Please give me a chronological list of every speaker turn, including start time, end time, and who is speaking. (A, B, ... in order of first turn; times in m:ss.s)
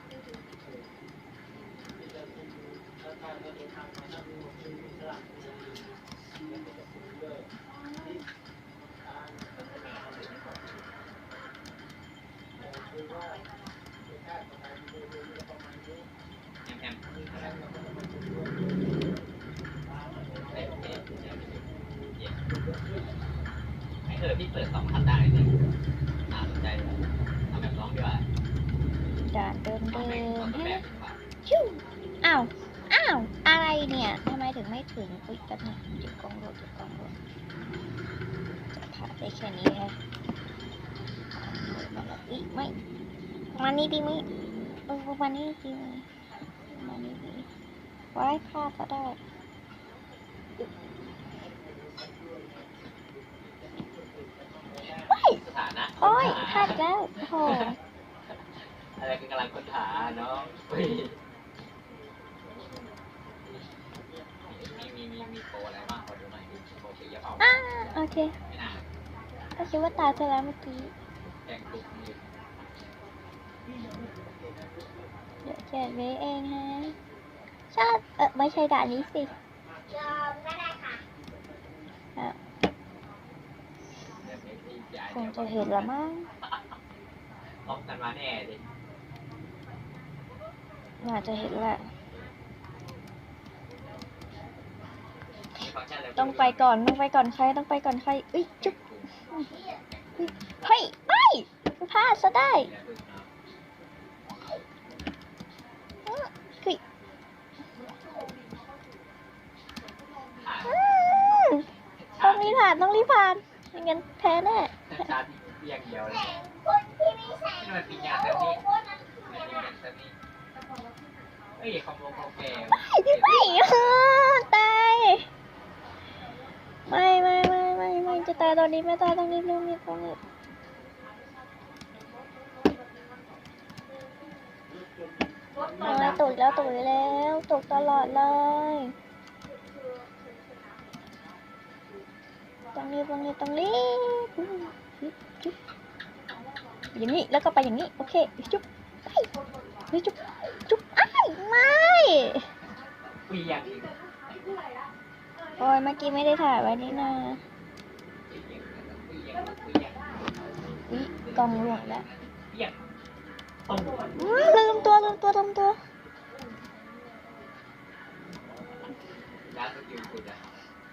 0:16.6-0:17.6 A
0:20.5-0:22.4 A
0:24.0-0:25.5 A
0:26.3-0:28.2 A
0:29.3-0:30.8 B
0:29.9-0:31.2 A
0:31.4-0:37.1 B
0:38.7-0:39.9 B
0:41.3-0:42.7 B
0:43.6-0:44.2 B
0:44.9-0:46.0 B
0:46.7-0:47.5 B
0:48.1-0:49.2 B
0:55.0-0:55.4 B
0:55.4-0:57.8 A
0:56.0-0:57.8 B
0:59.0-1:01.2 A
1:03.4-1:03.7 A
1:04.5-1:08.8 A
1:07.4-1:08.3 B
1:09.6-1:10.9 B
1:11.2-1:12.2 A
1:15.4-1:16.9 B
1:17.7-1:19.3 B
1:18.7-1:19.1 A
1:19.9-1:21.0 C
1:24.2-1:25.9 A
1:25.1-1:26.3 B
1:26.4-1:26.7 A
1:27.6-1:28.6 A
1:31.0-1:31.8 B
1:35.5-1:36.7 A
1:36.2-1:38.7 B
1:38.6-1:39.2 A
1:39.3-1:39.5 B
1:39.3-1:39.8 C
1:39.9-1:40.5 A
1:40.2-1:42.7 B
1:42.4-1:43.3 A
1:46.0-1:46.8 B
1:50.4-1:50.8 A
1:50.6-1:51.6 B
1:52.0-1:53.1 A
1:52.2-1:55.1 B
1:54.9-1:56.4 A
1:56.0-1:59.7 C
1:57.6-1:58.6 A
1:59.2-2:00.1 A
2:01.6-2:03.9 A
2:02.7-2:05.3 B
2:06.9-2:10.2 B
2:15.8-2:18.9 B
2:22.7-2:25.5 B
2:26.9-2:29.3 B
2:29.9-2:32.5 B
2:33.0-2:34.4 A
2:35.6-2:37.4 B
2:38.3-2:40.3 A
2:40.9-2:42.0 B
2:41.2-2:42.8 A
2:43.6-2:44.5 A
2:44.2-2:45.8 B
2:49.4-2:50.6 A